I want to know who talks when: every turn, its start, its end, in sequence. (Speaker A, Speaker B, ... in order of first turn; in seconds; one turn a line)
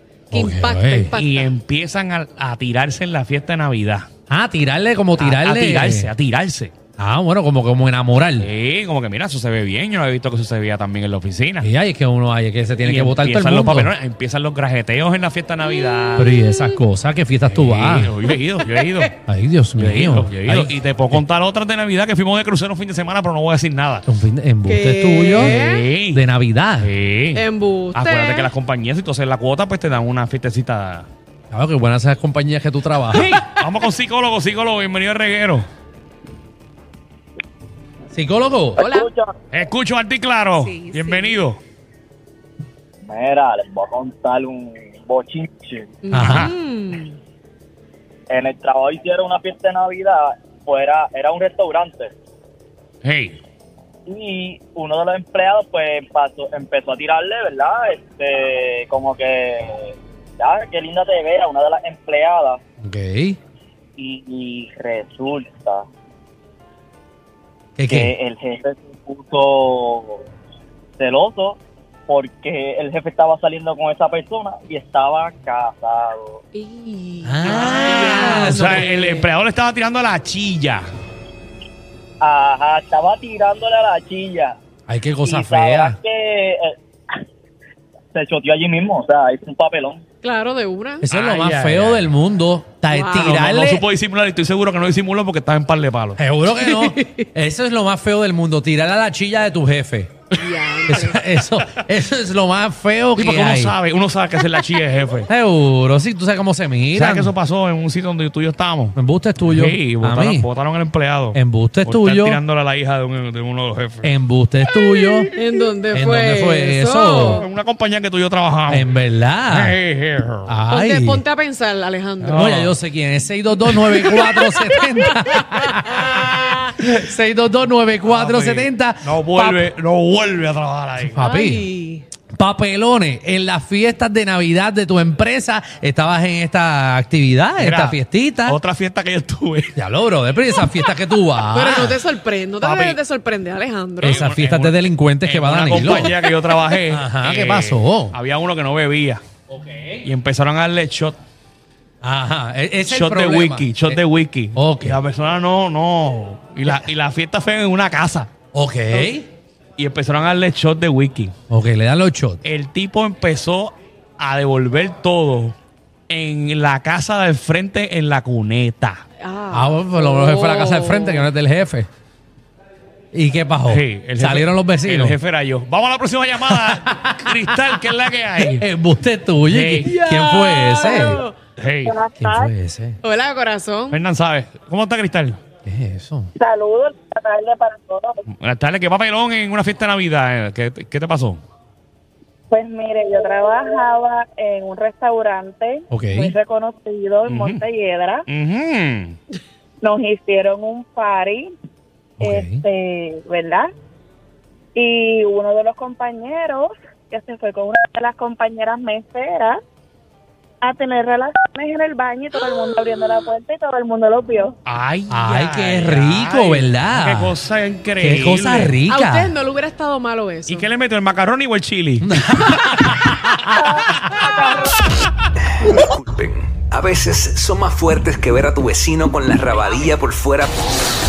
Speaker A: 0.3-1.1
Speaker B: 0.3-1.5
Speaker C: 1.2-4.1
Speaker A: 4.3-6.1
Speaker C: 5.2-6.7
Speaker A: 7.0-8.5
Speaker C: 8.4-11.7
Speaker A: 11.6-13.9
Speaker C: 12.8-16.4
Speaker A: 16.2-18.1
Speaker C: 17.4-19.1
Speaker B: 18.6-19.1
Speaker A: 19.3-21.2
Speaker C: 19.8-24.1
Speaker A: 24.1-25.6
Speaker B: 24.6-25.9
Speaker C: 25.3-26.2
Speaker A: 26.1-26.9
Speaker C: 26.8-27.4
Speaker B: 27.3-28.5
Speaker C: 27.9-31.1
Speaker A: 31.5-33.4
Speaker B: 33.2-33.6
Speaker C: 33.5-35.6
Speaker A: 38.1-38.8
Speaker B: 38.8-39.1
Speaker D: 38.8-39.3
Speaker C: 39.5-41.6
Speaker B: 40.6-41.4
Speaker D: 43.1-45.8
Speaker B: 46.0-47.2
Speaker A: 46.1-46.5
Speaker C: 46.1-46.5
Speaker D: 48.3-52.1
Speaker C: 53.0-53.4
Speaker D: 54.1-62.6
Speaker A: 62.8-63.4
Speaker D: 64.0-65.8
Speaker A: 67.8-68.1
Speaker D: 67.9-70.2
Speaker D: 71.0-76.4
Speaker B: 76.5-79.3
Speaker A: 77.2-78.9
Speaker C: 77.4-80.9
Speaker D: 82.2-84.5
Speaker A: 84.9-86.0
Speaker D: 85.2-86.7
Speaker D: 88.1-90.0
Speaker B: 90.2-91.0
Speaker A: 91.0-93.8
Speaker C: 91.1-92.1
Speaker B: 92.9-93.3
Speaker C: 93.1-96.2
Speaker A: 96.2-100.2
Speaker B: 96.6-97.2
Speaker B: 100.3-101.2
Speaker A: 100.9-103.8
Speaker C: 103.2-105.3
Speaker A: 105.3-107.3
Speaker C: 106.9-114.1
Speaker A: 109.0-110.5
Speaker A: 111.3-112.4
Speaker A: 114.0-115.3
Speaker B: 115.3-117.5
Speaker A: 115.9-117.4
Speaker C: 117.3-118.9
Speaker A: 118.7-119.8
Speaker C: 119.5-120.6
Speaker A: 120.5-121.2
Speaker B: 120.7-122.4
Speaker C: 122.2-122.8
Speaker A: 122.2-129.7
Speaker B: 123.9-126.6
Speaker C: 128.0-131.3
Speaker A: 131.0-131.7
Speaker B: 131.2-132.0
Speaker A: 132.3-138.6
Speaker C: 137.6-139.7
Speaker A: 139.8-142.0
Speaker B: 141.5-144.2
Speaker C: 142.6-142.9
Speaker A: 142.7-142.9
Speaker A: 144.0-146.2
Speaker C: 144.0-149.2
Speaker A: 146.9-148.2
Speaker A: 149.5-150.1
Speaker C: 150.0-151.2
Speaker A: 152.0-154.0
Speaker C: 152.8-158.3
Speaker A: 154.5-155.0
Speaker A: 158.5-159.2
Speaker C: 159.8-161.3
Speaker A: 161.5-162.4
Speaker C: 162.4-165.5
Speaker C: 166.1-169.0
Speaker B: 169.2-171.3
Speaker A: 169.5-171.9
Speaker A: 173.1-175.2
Speaker C: 173.7-178.6
Speaker A: 176.4-177.8
Speaker A: 178.4-181.2
Speaker C: 179.5-179.9
Speaker B: 179.8-181.3
Speaker E: 180.8-181.2
Speaker C: 181.6-182.0
Speaker E: 181.8-182.5
Speaker A: 182.2-183.0
Speaker B: 183.0-184.0
Speaker C: 183.9-185.4
Speaker A: 185.7-186.3
Speaker E: 186.4-188.2
Speaker C: 188.3-191.4
Speaker E: 192.5-198.2
Speaker A: 195.9-196.3
Speaker C: 197.2-197.7
Speaker C: 198.3-199.2
Speaker E: 199.8-201.5
Speaker A: 202.2-202.6
Speaker E: 202.2-203.7
Speaker E: 204.7-209.6
Speaker E: 210.6-214.5
Speaker C: 214.7-218.8
Speaker A: 215.1-217.3
Speaker A: 218.0-219.3
Speaker B: 218.9-220.7
Speaker C: 220.5-224.0
Speaker A: 222.0-223.5
Speaker E: 223.5-224.8
Speaker F: 225.6-230.7